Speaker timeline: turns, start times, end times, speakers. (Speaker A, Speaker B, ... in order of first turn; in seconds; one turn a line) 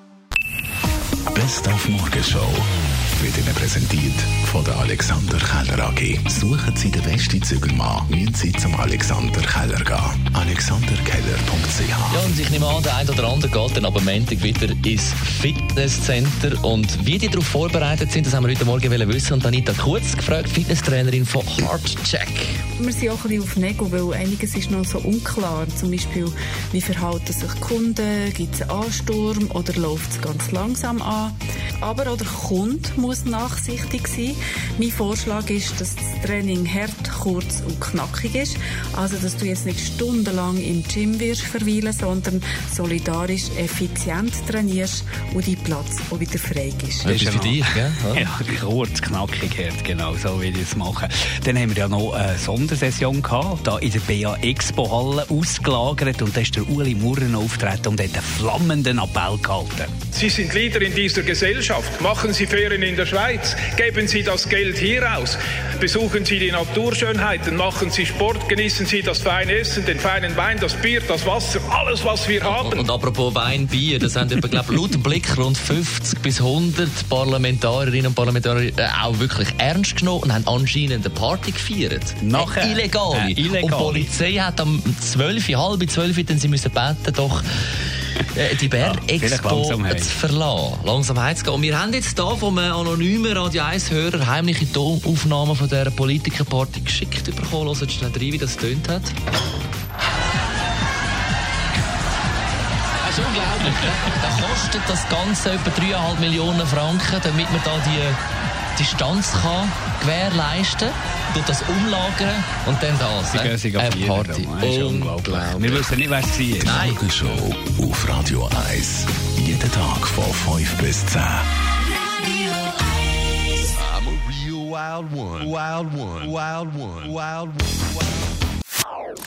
Speaker A: 1.3-12.3
Speaker B: 12.1-22.6
Speaker C: 22.8-47.1
Speaker D: 47.0-59.9
Speaker B: 47.0-48.3
Speaker E: 60.1-72.9
Speaker B: 72.4-99.1
Speaker D: 82.2-84.1
Speaker D: 88.8-90.2
Speaker B: 103.0-108.2
Speaker B: 108.8-116.0
Speaker D: 113.3-116.8
Speaker B: 116.6-117.0
Speaker A: 116.7-121.5
Speaker F: 123.9-127.2
Speaker A: 124.6-127.3